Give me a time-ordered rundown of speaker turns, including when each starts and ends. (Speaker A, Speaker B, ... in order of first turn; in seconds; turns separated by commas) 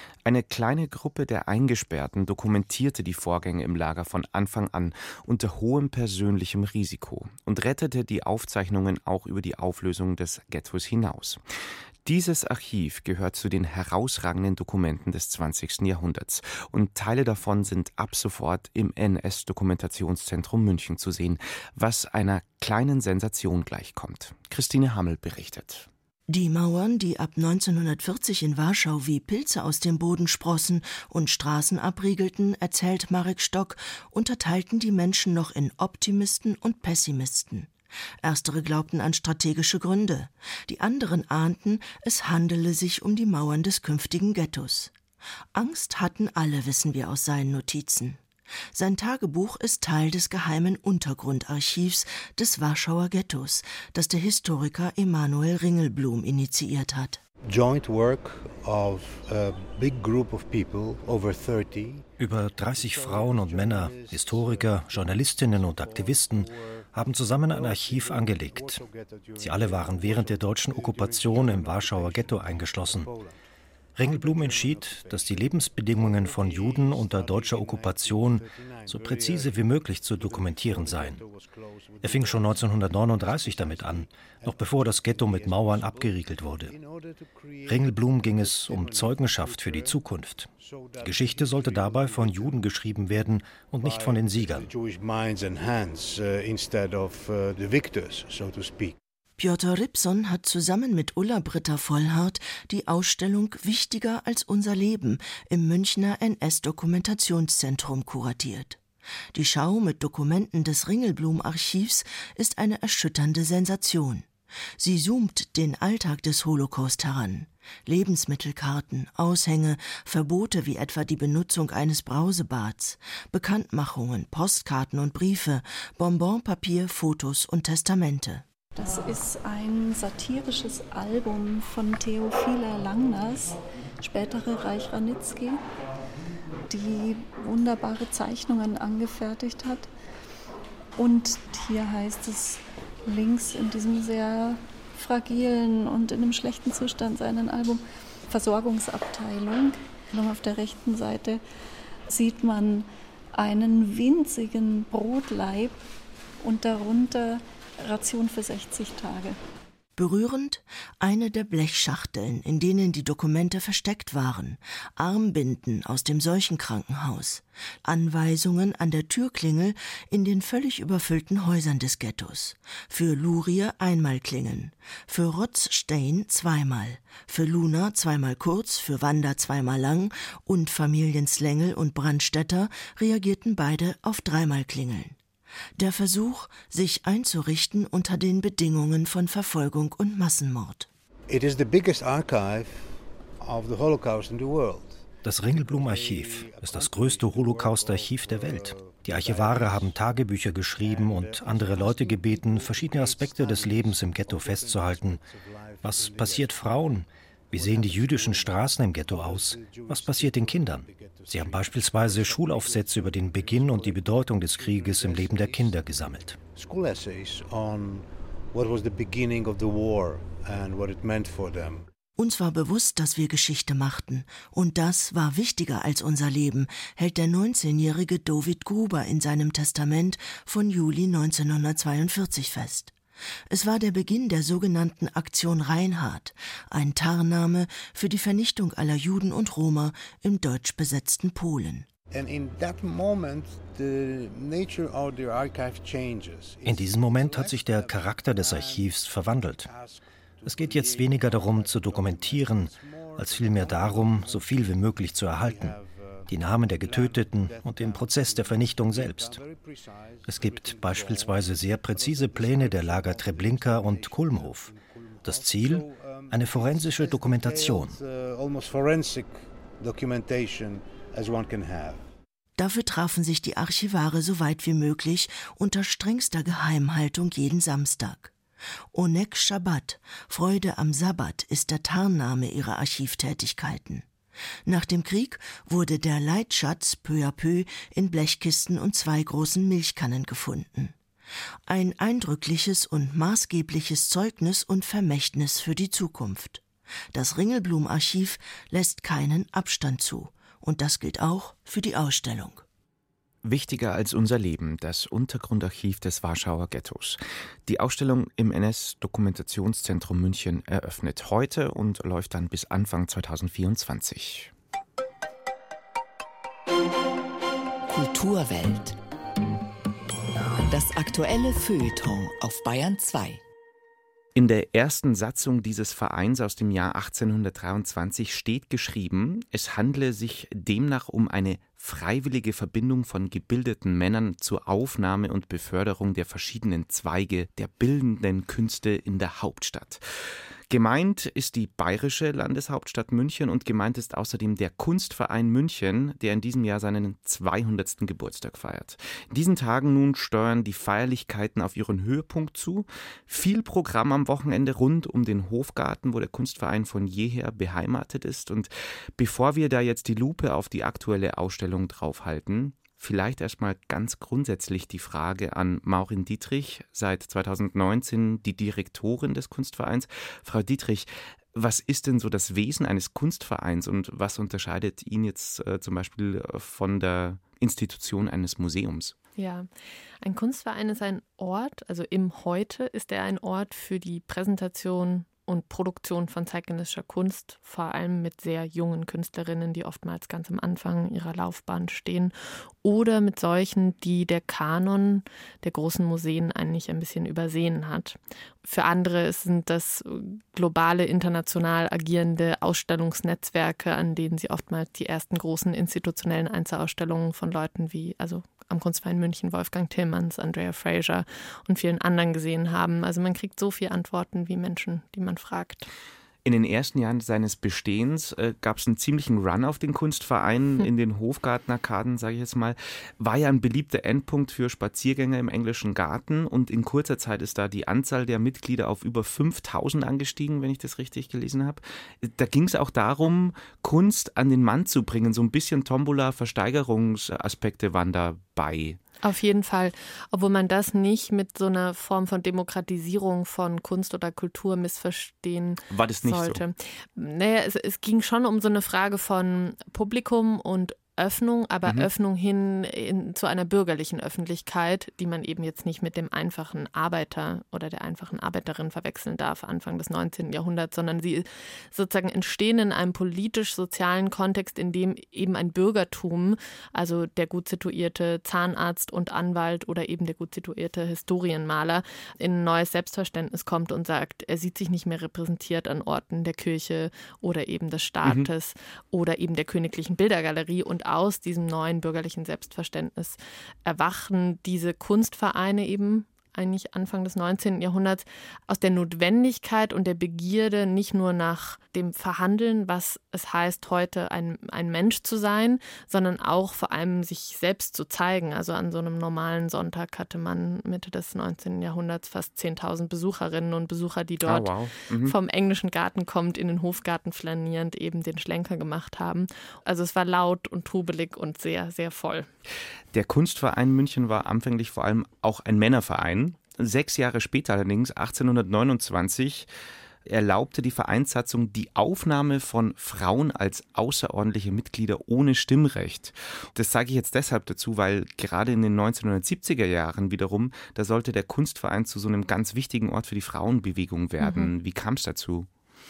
Speaker A: 0.2-11.4, Speaker A: 12.0-25.9, Speaker B: 26.3-37.7, Speaker B: 38.2-44.9, Speaker B: 45.5-48.2, Speaker B: 48.7-57.2, Speaker C: 57.5-73.4, Speaker D: 62.2-68.8, Speaker D: 69.4-73.1, Speaker D: 74.0-81.2, Speaker C: 74.0-90.0, Speaker D: 82.0-86.8, Speaker D: 87.7-90.5, Speaker C: 90.6-92.6, Speaker D: 91.0-94.7, Speaker C: 93.8-99.0, Speaker B: 99.4-108.8, Speaker B: 109.3-114.3, Speaker B: 114.8-128.4, Speaker E: 128.8-135.6, Speaker E: 136.7-139.9, Speaker E: 141.0-151.4, Speaker E: 152.1-155.8, Speaker E: 156.4-159.4, Speaker B: 159.9-185.2, Speaker B: 185.8-190.9, Speaker C: 191.3-199.9, Speaker D: 195.2-205.2, Speaker C: 200.8-206.8, Speaker D: 205.8-216.4, Speaker C: 207.5-215.9, Speaker C: 216.5-221.9, Speaker B: 222.2-232.9, Speaker B: 233.5-241.9, Speaker C: 242.1-249.0, Speaker D: 246.6-249.7, Speaker C: 249.6-272.1, Speaker D: 250.4-255.8, Speaker D: 256.3-259.4, Speaker D: 260.2-264.7, Speaker D: 265.2-267.9, Speaker B: 272.6-278.3, Speaker B: 278.9-284.1, Speaker B: 284.6-290.9, Speaker B: 291.7-296.6, Speaker B: 297.1-302.6, Speaker A: 303.4-314.5, Speaker F: 317.9-319.0, Speaker F: 320.7-323.4, Speaker A: 324.3-340.0, Speaker A: 340.7-379.1, Speaker G: 379.4-379.7, Speaker G: 380.2-415.9, Speaker A: 416.4-439.0, Speaker G: 439.2-512.5, Speaker A: 445.9-446.6, Speaker A: 504.4-505.3, Speaker A: 513.1-519.7, Speaker A: 520.2-535.7, Speaker G: 534.4-534.7